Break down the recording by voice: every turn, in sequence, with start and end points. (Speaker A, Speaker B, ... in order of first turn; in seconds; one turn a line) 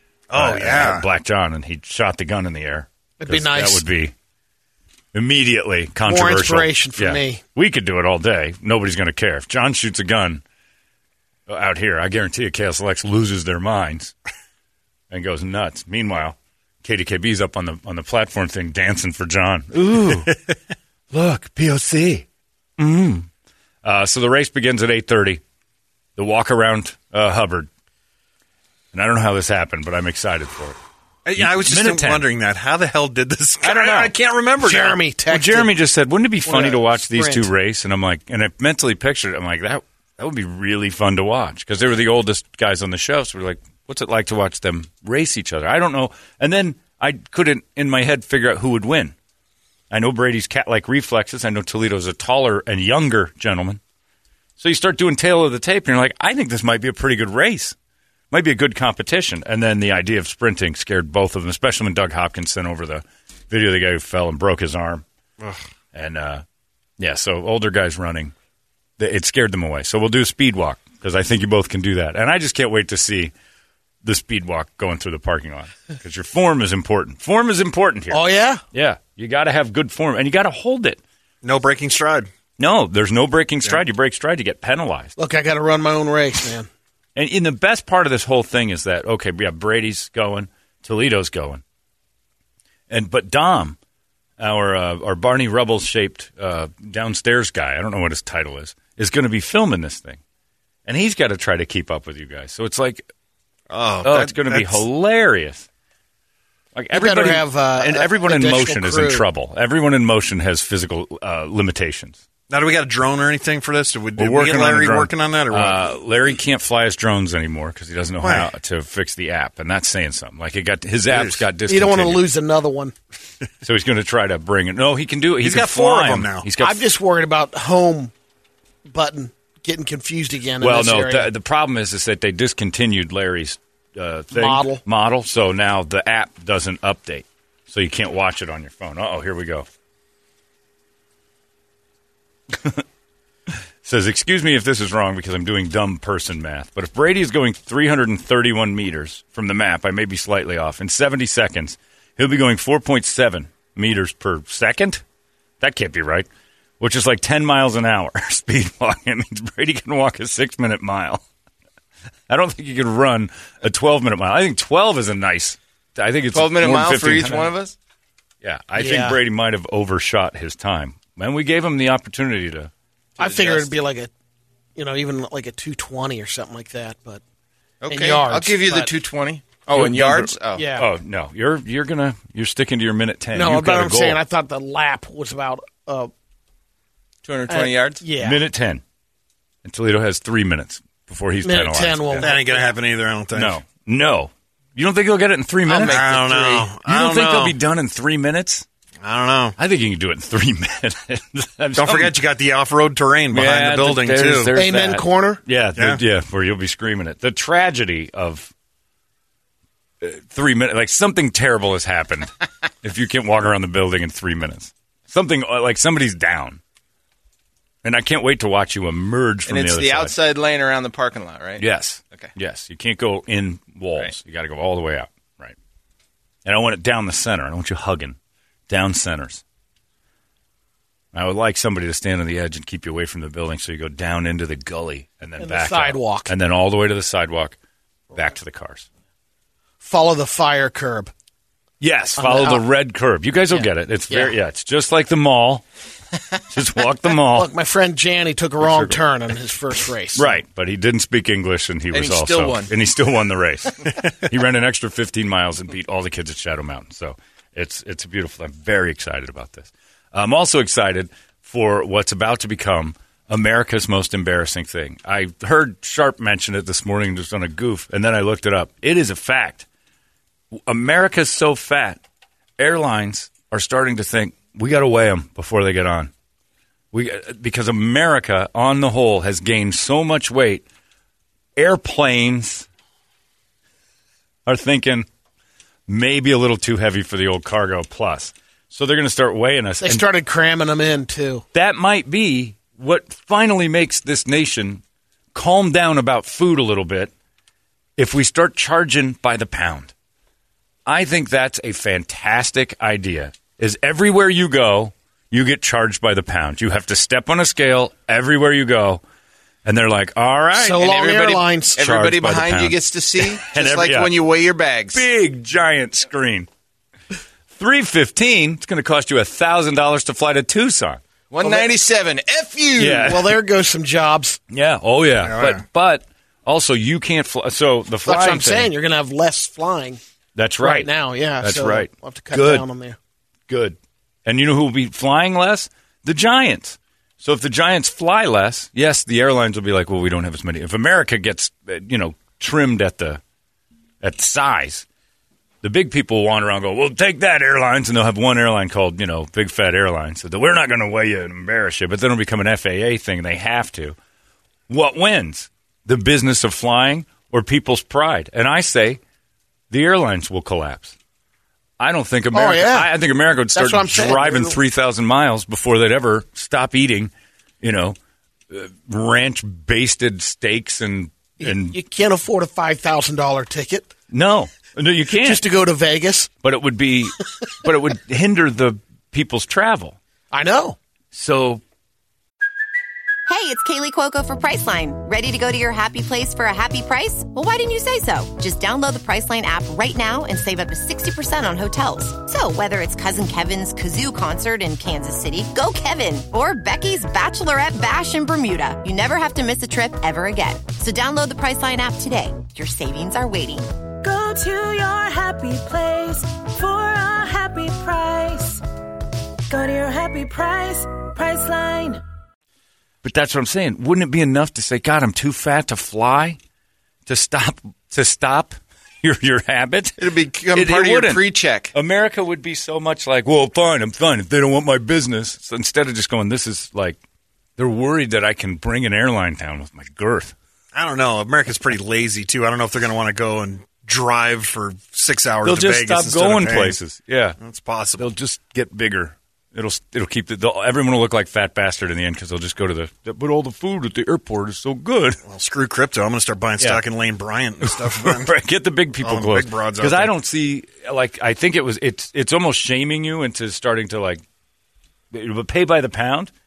Speaker A: 0.3-1.0
Speaker B: 0.3-4.1
Speaker C: 3.2-3.8
Speaker B: 5.1-10.4
Speaker C: 6.0-7.4
Speaker B: 11.5-14.1
Speaker B: 15.1-20.4
Speaker B: 21.1-22.2
Speaker B: 22.8-23.3
Speaker B: 23.8-25.4
Speaker B: 26.1-27.7
Speaker B: 28.9-30.8
Speaker A: 31.2-35.0
Speaker B: 31.4-32.2
Speaker B: 33.6-34.1
Speaker C: 34.6-35.7
Speaker B: 35.3-49.1
Speaker C: 36.5-37.5
Speaker B: 49.9-53.8
Speaker B: 54.6-57.8
Speaker B: 58.3-65.0
Speaker B: 65.9-66.4
Speaker B: 67.0-68.3
Speaker B: 69.0-73.3
Speaker B: 74.0-78.2
Speaker C: 78.1-78.6
Speaker B: 78.7-81.0
Speaker A: 81.4-82.3
Speaker B: 82.6-85.1
Speaker C: 85.2-86.7
Speaker B: 87.2-91.6
Speaker B: 92.9-93.8
Speaker B: 94.4-100.2
Speaker B: 100.8-103.1
Speaker A: 103.7-104.8
Speaker B: 104.0-105.7
Speaker B: 106.7-112.2
Speaker C: 106.9-109.2
Speaker A: 112.5-115.8
Speaker B: 114.2-122.2
Speaker A: 118.2-118.5
Speaker A: 121.1-121.4
Speaker C: 121.7-122.9
Speaker B: 123.6-126.8
Speaker A: 125.4-126.5
Speaker C: 126.6-128.1
Speaker C: 128.9-131.3
Speaker B: 130.6-139.7
Speaker C: 134.3-134.8
Speaker B: 142.5-142.8
Speaker B: 143.5-155.0
Speaker B: 155.6-156.3
Speaker B: 156.8-161.2
Speaker B: 162.3-167.5
Speaker D: 166.3-167.7
Speaker B: 168.4-172.7
Speaker C: 168.8-169.2
Speaker D: 173.2-173.7
Speaker C: 173.2-174.1
Speaker C: 174.8-177.2
Speaker D: 177.8-180.6
Speaker C: 177.9-178.9
Speaker B: 179.7-184.2
Speaker C: 180.5-180.9
Speaker C: 183.3-186.1
Speaker D: 187.2-188.0
Speaker C: 187.5-188.4
Speaker B: 188.2-188.8
Speaker B: 189.6-192.3
Speaker C: 191.4-192.6
Speaker A: 192.2-193.6
Speaker B: 193.3-196.0
Speaker A: 195.7-197.6
Speaker D: 195.8-196.1
Speaker C: 195.8-196.7
Speaker B: 196.8-198.7
Speaker A: 199.0-199.5
Speaker B: 199.6-202.2
Speaker A: 201.7-204.5
Speaker B: 203.3-208.5
Speaker C: 204.5-205.4
Speaker B: 210.0-212.3
Speaker B: 212.8-216.6
Speaker B: 217.8-220.1
Speaker D: 219.5-222.3
Speaker B: 221.6-225.6
Speaker B: 226.4-228.2
Speaker B: 228.7-229.4
Speaker B: 231.1-237.6
Speaker C: 235.4-236.3
Speaker B: 238.1-238.9
Speaker C: 239.8-241.1
Speaker B: 241.8-245.7
Speaker C: 242.2-242.6
Speaker C: 243.5-244.3
Speaker B: 246.5-247.5
Speaker C: 247.3-250.3
Speaker B: 248.6-249.0
Speaker B: 250.1-269.6
Speaker D: 251.9-252.7
Speaker B: 270.6-272.0
Speaker B: 272.6-276.1
Speaker B: 276.9-280.6
Speaker B: 281.6-282.7
Speaker B: 284.4-285.1
Speaker B: 285.9-290.1
Speaker C: 289.8-291.4
Speaker B: 291.5-294.8
Speaker B: 295.3-297.1
Speaker B: 298.0-299.9
Speaker B: 300.9-309.0
Speaker B: 309.6-314.1
Speaker C: 310.6-311.9
Speaker D: 311.2-315.0
Speaker B: 314.9-316.5
Speaker B: 317.5-321.0
Speaker D: 321.3-323.1
Speaker C: 321.4-321.7
Speaker B: 322.8-323.4
Speaker C: 322.8-324.4
Speaker B: 324.5-328.7
Speaker A: 325.2-325.6
Speaker C: 328.0-330.0
Speaker B: 330.4-332.6
Speaker C: 330.6-333.0
Speaker B: 333.5-343.2
Speaker B: 344.0-344.9
Speaker B: 345.6-354.0
Speaker B: 354.7-359.0
Speaker B: 359.7-360.9
Speaker B: 361.8-368.0
Speaker C: 362.3-362.9
Speaker C: 363.5-364.6
Speaker B: 368.5-371.8
Speaker C: 371.4-373.9
Speaker B: 374.1-375.4
Speaker C: 375.2-376.3
Speaker B: 376.4-380.0
Speaker C: 380.3-380.8
Speaker B: 381.1-381.6
Speaker E: 383.3-403.7
Speaker F: 404.0-408.6
Speaker F: 409.5-412.0
Speaker B: 413.0-416.4
Speaker B: 417.1-420.0
Speaker D: 420.0-421.7
Speaker B: 420.5-427.0
Speaker B: 427.6-430.3
Speaker A: 430.7-436.8
Speaker B: 435.4-437.4
Speaker A: 437.4-438.0
Speaker B: 438.0-445.2
Speaker A: 445.3-448.3
Speaker B: 447.6-454.2
Speaker A: 449.0-450.1
Speaker B: 455.1-456.3